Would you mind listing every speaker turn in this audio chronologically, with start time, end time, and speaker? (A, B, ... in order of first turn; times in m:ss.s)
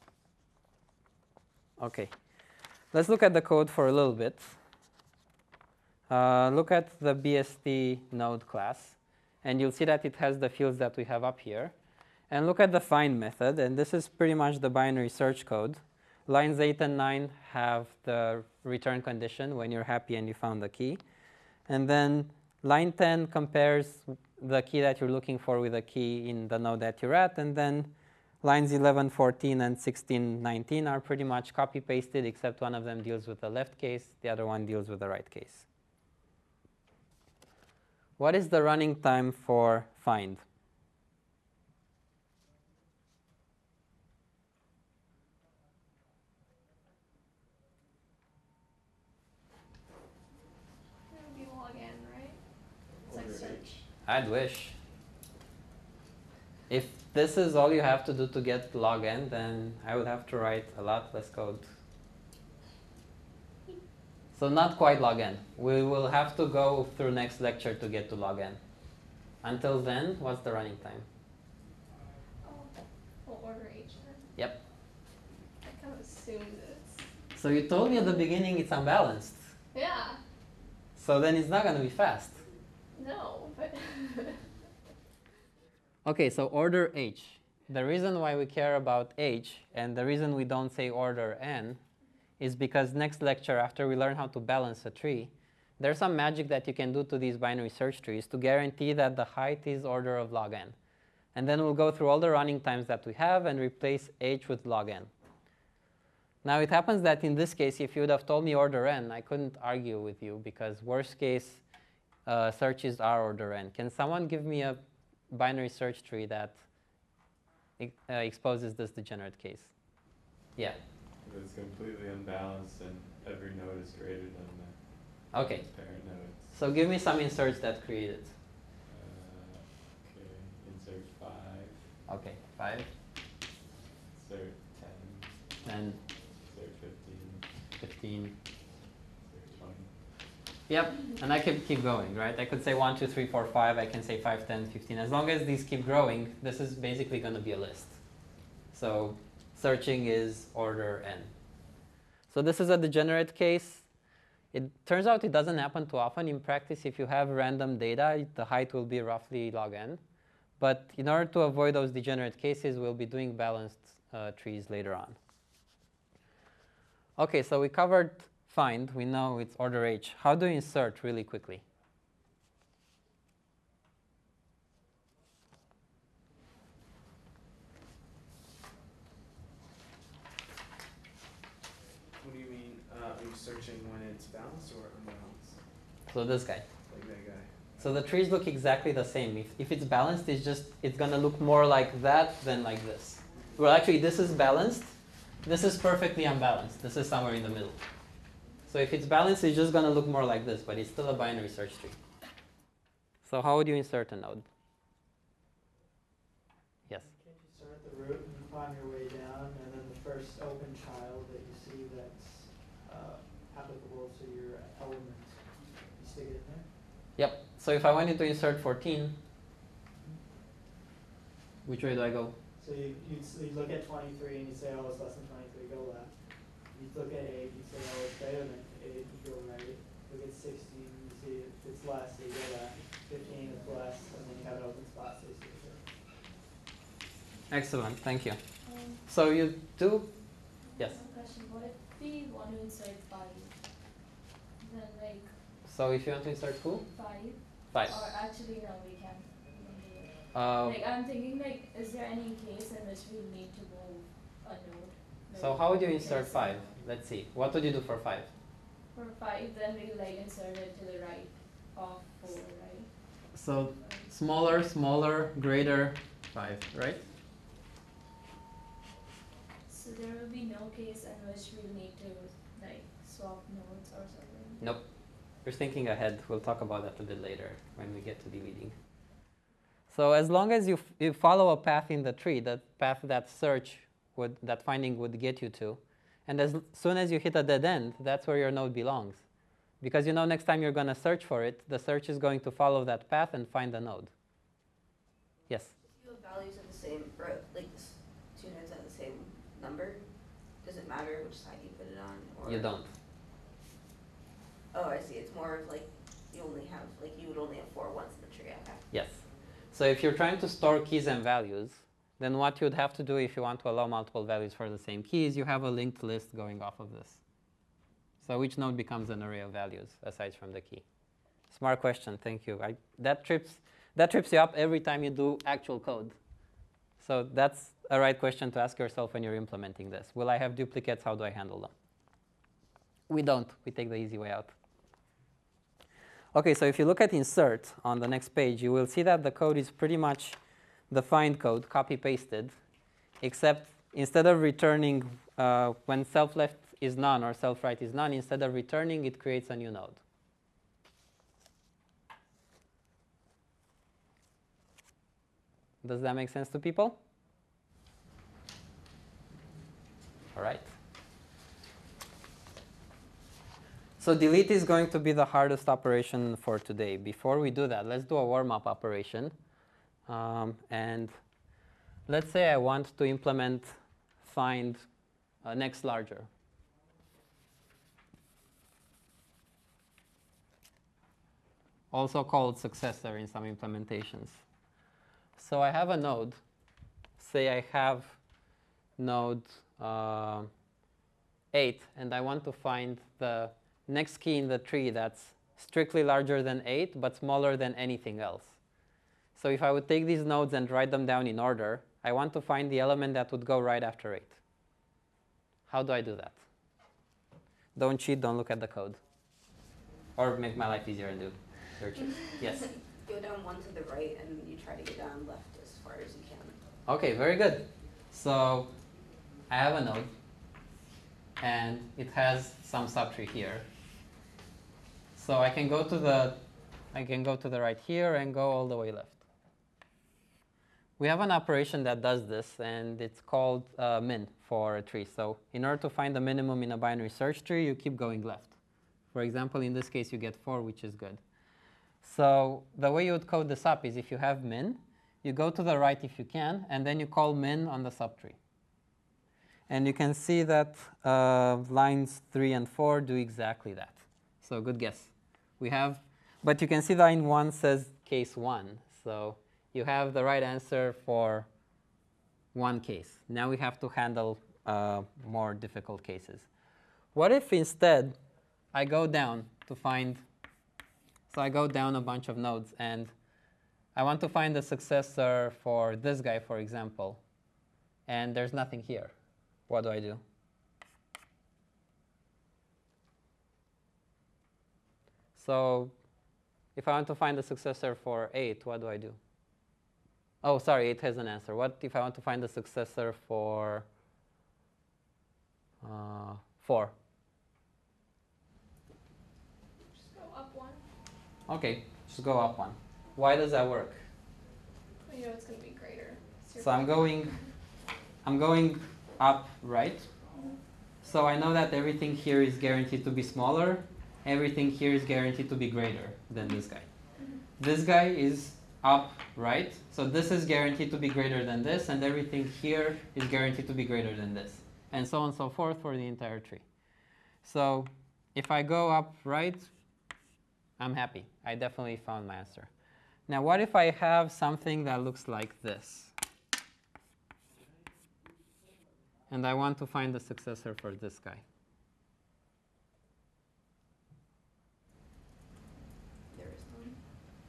0:01.8-0:02.1 A
0:02.9-0:04.6 A
0:06.1-0:11.7 A
0:12.3-0:21.0 A
0:21.7-0:35.6 A
0:38.2-0:40.4 A
0:51.1-0:52.4 B
0:53.0-0:53.7 C
0:53.1-0:53.8 D
0:54.0-0:54.8 A
0:56.7-1:01.6 A
1:04.3-1:08.6 A
1:09.4-1:11.0 A
1:12.4-1:12.7 B
1:13.2-1:14.2 B
1:15.6-1:17.0 B
1:17.3-1:19.4 A
1:19.7-1:20.2 B
1:21.0-1:22.4 A
1:22.9-1:24.4 B
1:26.0-1:31.8 A
1:32.4-1:40.8 A
1:41.3-1:45.1 A
1:46.4-1:51.6 A
1:52.2-1:56.6 A
1:57.8-1:59.7 A
2:01.2-2:06.5 C
2:05.3-2:05.7 A
2:06.4-2:08.4 A
2:08.8-2:11.9 C
2:12.1-2:12.9 A
2:14.1-2:15.4 C
2:15.6-2:16.0 A
2:16.4-2:17.5 C
2:17.8-2:18.4 A
2:19.2-2:20.0 C
2:20.7-2:28.0 A
2:28.7-2:31.3 A
2:32.3-2:33.9 A
2:34.5-2:40.0 A
2:40.6-2:45.2 A
2:47.2-2:51.6 A
3:02.2-3:05.6 E
3:06.1-3:06.6 A
3:06.9-3:07.5 E
3:07.8-3:17.8 A
3:18.7-3:22.0 A
3:23.2-3:24.4 A
3:27.0-3:36.7 F
3:37.2-3:39.2 A
3:41.6-3:42.3 A
3:42.6-3:55.9 F
3:57.5-4:01.0 A
3:58.6-3:59.0 D
4:00.7-4:03.9 D
4:04.6-4:05.4 D
4:05.6-4:06.9 A
4:06.9-4:16.8 D
4:07.6-4:08.0 A
4:10.3-4:10.8 A
4:15.4-4:18.3 A
4:18.9-4:23.0 D
4:23.3-4:27.0 A
4:23.8-4:24.1 D
4:29.7-4:34.6 D
4:34.6-4:34.8 A
4:35.4-4:38.7 A
4:39.9-4:49.2 A
4:49.8-4:54.1 A
4:55.8-5:02.7 G
5:02.4-5:02.9 A
5:04.7-5:08.8 G
5:08.9-5:17.2 A
5:18.2-5:20.8 A
5:21.5-5:26.2 A
5:27.0-5:31.7 A
5:33.1-5:34.5 A
5:36.3-5:40.4 A
5:40.9-5:42.5 A
5:43.2-5:50.0 A
5:55.8-5:57.0 A
6:00.3-6:00.7 A
6:04.0-6:09.3 A
6:10.1-6:11.2 A
6:12.1-6:14.8 A
6:15.4-6:16.3 A
6:21.9-6:24.4 A
6:25.4-6:26.4 A
6:27.2-6:28.2 A
6:29.0-6:30.5 A
6:31.5-6:38.6 A
6:39.3-6:44.4 A
6:45.7-6:46.4 A
6:47.8-6:49.0 A
6:50.2-6:52.7 A
6:53.0-6:56.6 G
6:56.8-6:58.7 A
6:59.5-7:00.1 A
7:01.4-7:03.7 A
7:05.1-7:09.2 A
7:11.0-7:18.5 A
7:19.1-7:21.2 A
7:22.0-7:28.4 A
7:29.7-7:41.5 A
7:42.5-7:46.5 A
7:47.1-7:48.2 A
7:48.7-7:50.2 A
7:51.3-7:53.1 A
7:53.9-7:57.2 A
7:58.1-7:59.1 A
7:59.7-8:00.2 A
8:05.4-8:05.9 A
8:06.8-8:09.2 A
8:10.4-8:13.9 A
8:15.8-8:16.9 A
8:19.9-8:20.8 B
8:21.5-8:24.0 A
8:25.0-8:27.5 B
8:26.6-8:27.4 A
8:28.2-8:30.1 A
8:30.3-8:30.6 B
8:31.0-8:36.9 A
8:37.6-8:46.6 A
8:47.4-8:49.7 A
8:50.8-8:52.7 A
8:53.3-8:56.1 A
8:59.3-9:01.4 A
9:06.3-9:07.0 G